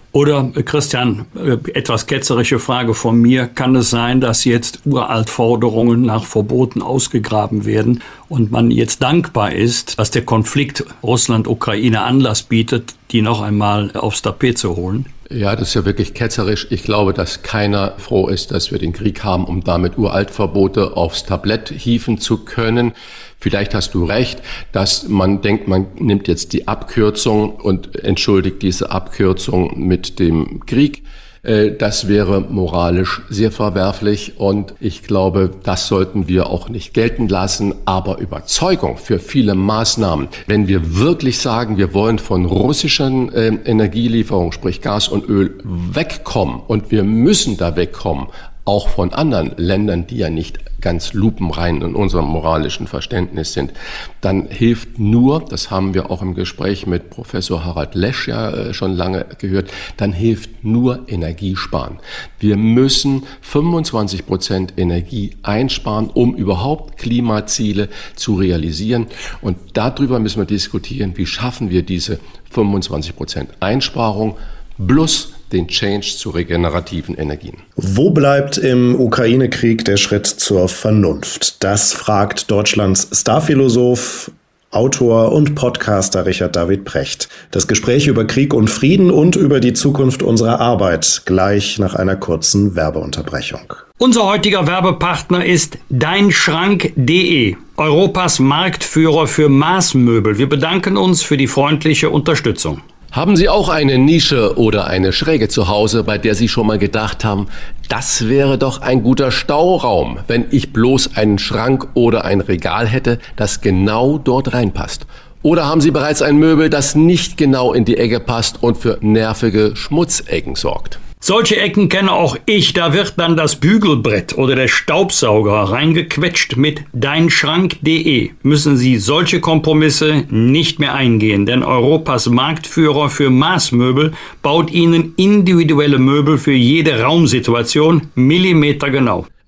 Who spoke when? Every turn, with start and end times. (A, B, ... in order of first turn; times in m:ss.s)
0:00.1-0:15.1 A
0:15.3-1:17.6 B
1:17.8-1:33.8 C
1:34.0-1:42.8 A
1:43.1-2:01.0 B
2:01.2-2:19.2 A